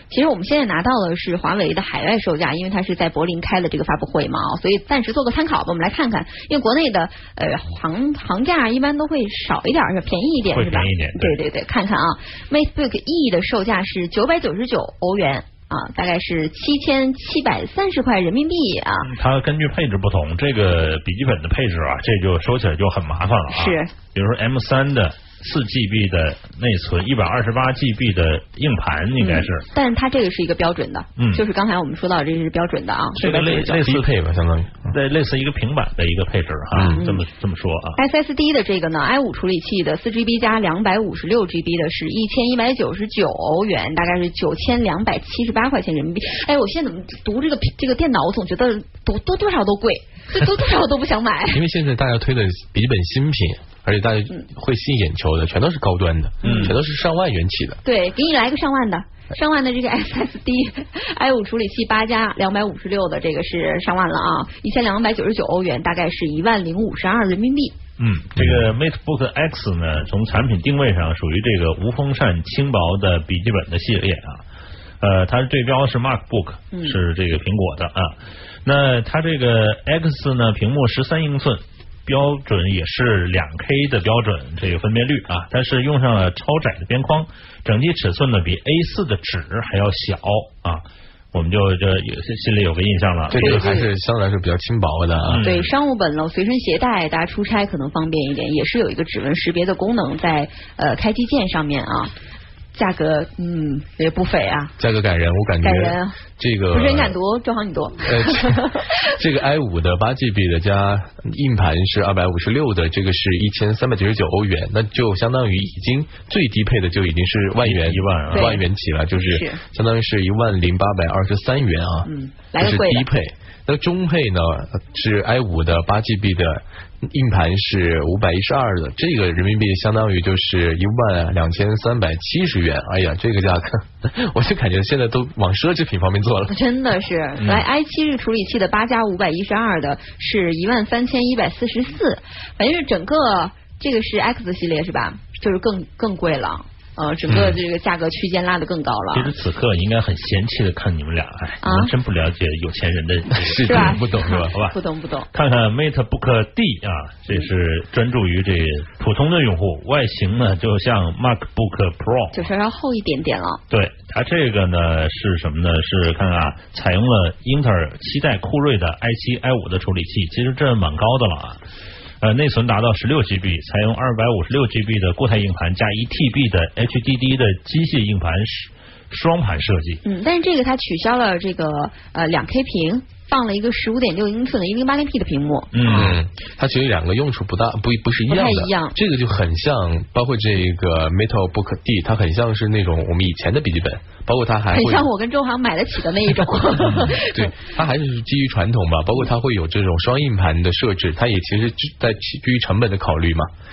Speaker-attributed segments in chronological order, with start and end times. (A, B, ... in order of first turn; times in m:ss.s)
0:00.1-0:19.1 A
0:10.5-0:11.4 B
0:19.0-0:29.6 B
0:23.5-0:23.9 A
0:29.2-0:33.9 A
0:31.2-0:31.4 B
0:33.1-0:34.1 B
0:33.7-0:34.9 C
0:34.8-0:38.0 B
0:36.7-0:37.0 C
0:36.9-0:37.2 A
0:38.0-0:51.6 A
0:51.5-0:57.8 C
0:56.4-0:56.8 A
0:57.8-1:07.8 A
1:08.0-1:14.4 B
1:08.4-1:08.6 C
1:15.0-1:33.8 B
1:16.7-1:17.0 A
1:33.3-1:33.9 A
1:33.3-1:35.5 C
1:35.2-1:35.7 B
1:35.4-1:42.1 A
1:42.7-1:44.7 A
1:44.8-1:47.2 C
1:45.6-1:46.2 A
1:46.7-1:49.0 A
1:48.0-2:16.6 C
1:57.6-1:58.6 B
1:58.3-1:58.6 A
1:59.2-1:59.6 A
2:02.0-2:03.1 A
2:16.5-2:29.3 A
2:27.3-2:27.6 C
2:29.1-2:34.8 B
2:31.6-2:31.9 A
2:33.3-2:34.6 C
2:33.6-2:35.3 A
2:35.3-2:42.5 B
2:42.3-2:43.6 A
2:43.7-2:51.6 B
2:52.2-3:00.0 B
3:00.0-3:06.0 A
3:05.7-3:06.2 B
3:05.8-3:15.1 C
3:08.3-3:09.0 A
3:14.7-3:17.5 A
3:16.8-3:23.5 C